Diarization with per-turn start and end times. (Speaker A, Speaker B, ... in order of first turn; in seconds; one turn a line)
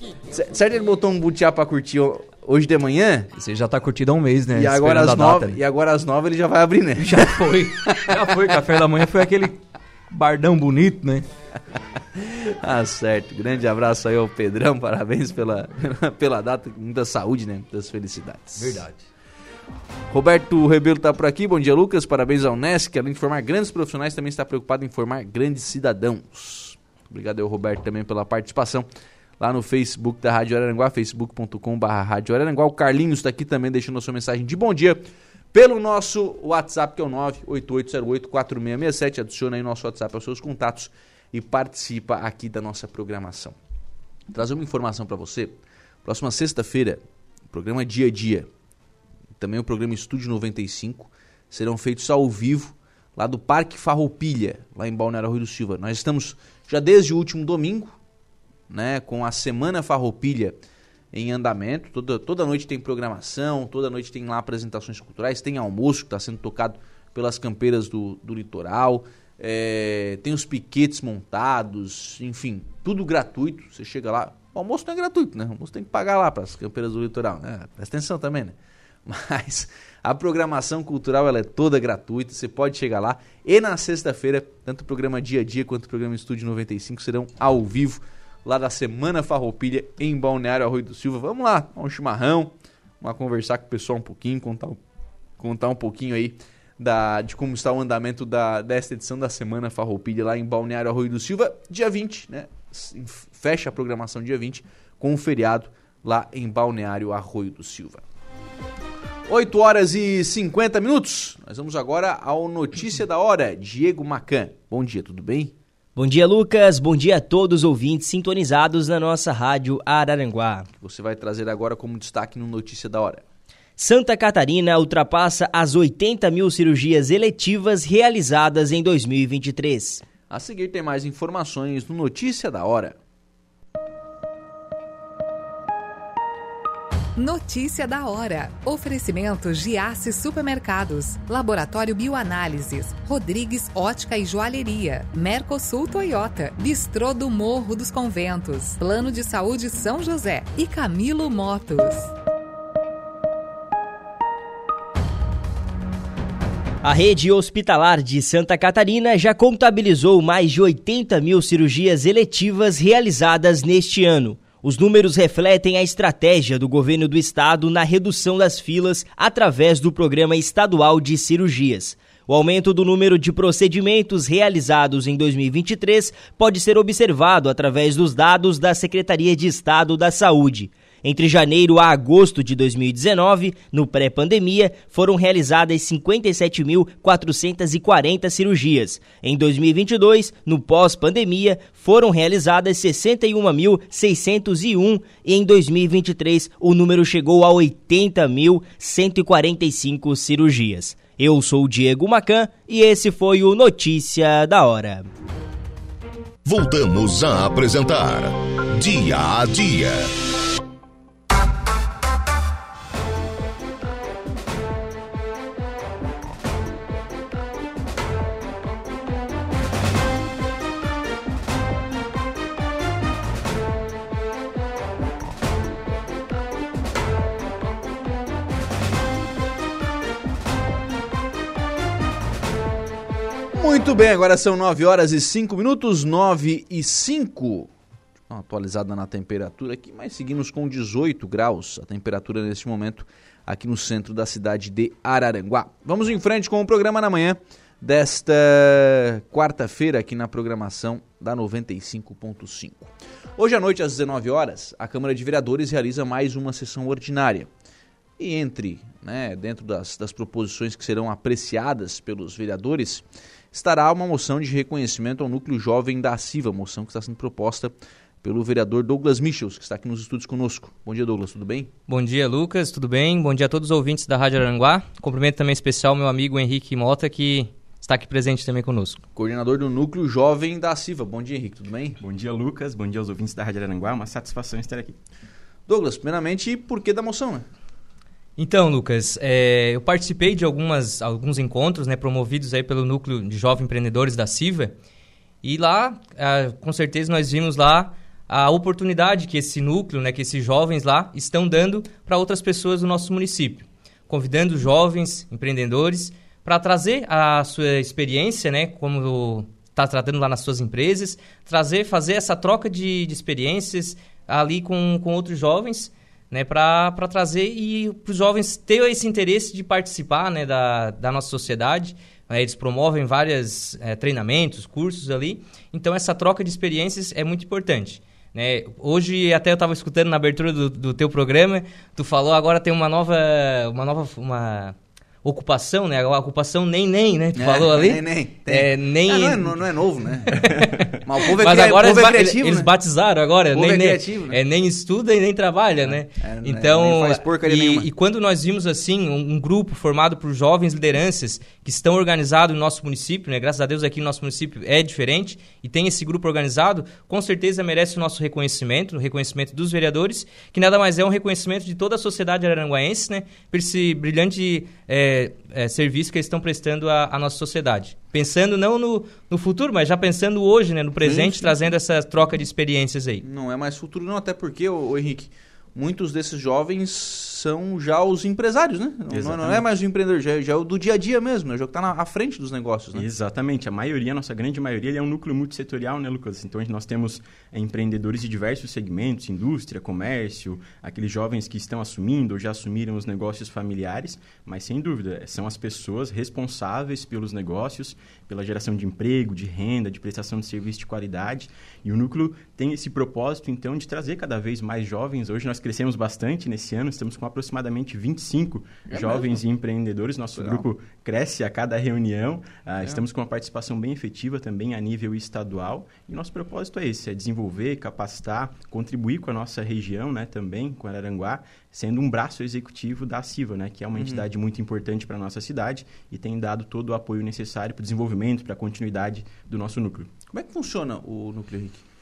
Speaker A: 0.3-3.3
Speaker B: 3.3-5.6
Speaker A: 4.5-8.1
Speaker B: 7.0-9.6
Speaker B: 10.1-11.2
Speaker A: 12.2-18.8
Speaker B: 18.6-19.0
Speaker A: 20.1-28.9
Speaker A: 29.4-43.5
Speaker A: 44.3-48.5
Speaker A: 49.4-58.0
Speaker A: 58.7-60.6
Speaker A: 61.1-78.5
Speaker A: 79.0-94.8
Speaker A: 95.4-108.0
Speaker A: 109.3-115.5
Speaker C: 116.0-120.7
Speaker A: 120.8-123.2
Speaker C: 123.8-130.0
Speaker A: 130.3-132.9
Speaker D: 137.2-152.1
Speaker C: 156.8-205.1
Speaker E: 206.4-210.1
Speaker A: 233.5-237.7
Speaker A: 238.3-257.5
Speaker A: 258.2-271.7
Speaker F: 271.9-279.0
Speaker A: 279.1-282.0
Speaker G: 282.0-285.0
Speaker A: 285.7-287.4
Speaker F: 288.4-294.7
Speaker F: 295.4-339.7
Speaker A: 337.3-340.4
Speaker F: 340.3-340.8
Speaker A: 341.0-342.7
Speaker F: 341.3-373.2
Speaker A: 343.5-344.4
Speaker A: 345.8-347.9
Speaker A: 371.0-371.6
Speaker A: 373.2-383.1
Speaker G: 379.1-379.7
Speaker G: 382.9-430.1
Speaker A: 408.9-409.4
Speaker A: 410.3-410.6
Speaker A: 423.9-424.2
Speaker A: 430.3-431.8